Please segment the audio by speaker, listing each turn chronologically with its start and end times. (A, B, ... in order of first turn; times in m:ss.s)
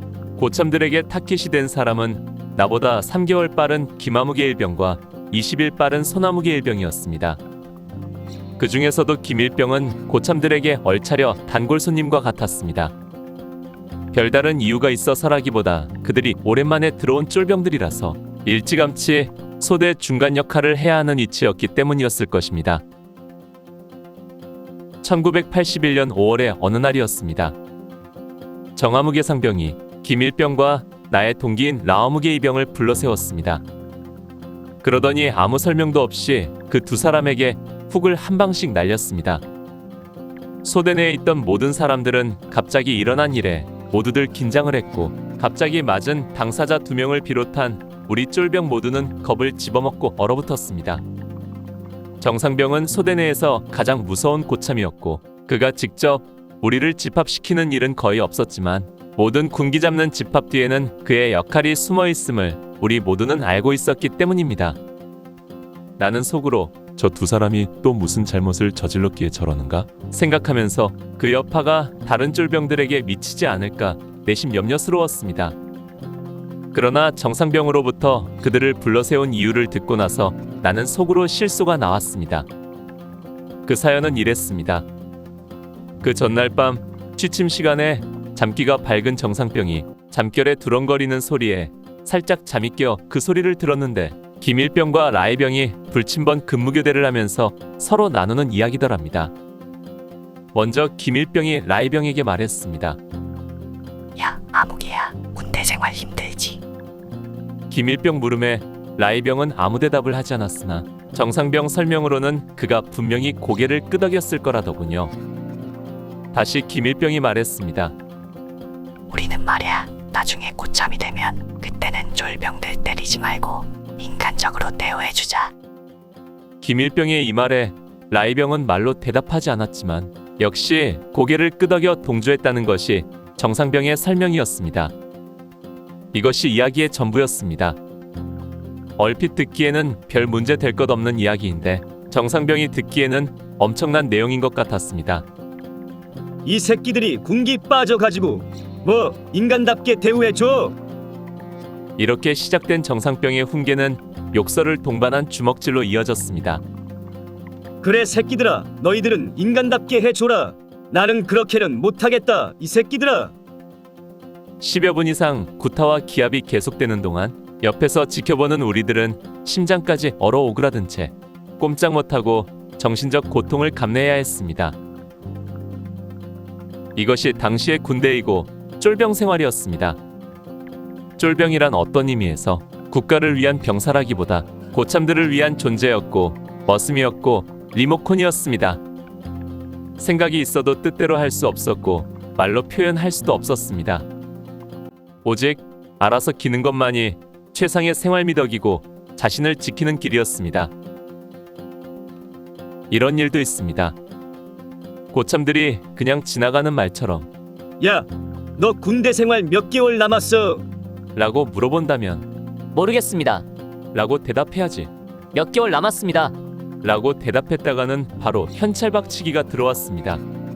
0:00.4-0:07.4 A
0:08.6-0:12.9 A
0:14.1-0:22.8 A
0:25.0-0:27.6 A
0:28.8-0:33.6 A
0:34.8-0:39.4 A
0:40.6-0:51.0 A
0:52.2-1:04.8 A
1:06.0-1:15.6 A
1:16.7-1:22.5 A
1:23.6-1:24.9 A
1:26.0-1:39.3 A
1:40.5-1:43.0 A
1:44.2-1:46.6 B
1:47.7-1:55.1 A
1:56.3-1:57.9 A
1:59.1-2:05.5 B
2:06.6-2:14.9 A
2:16.1-2:17.8 A
2:19.0-2:25.3 A
2:26.4-2:30.8 C
2:32.0-2:36.6 A
2:37.8-2:43.4 C
2:44.6-2:54.8 A
2:57.0-3:00.0 A
3:01.2-3:08.8 A
3:10.0-3:14.1 A
3:15.2-3:20.7 A
3:22.9-3:24.0 A
3:25.1-3:27.3 A
3:27.8-3:30.7 C
3:31.1-3:40.2 A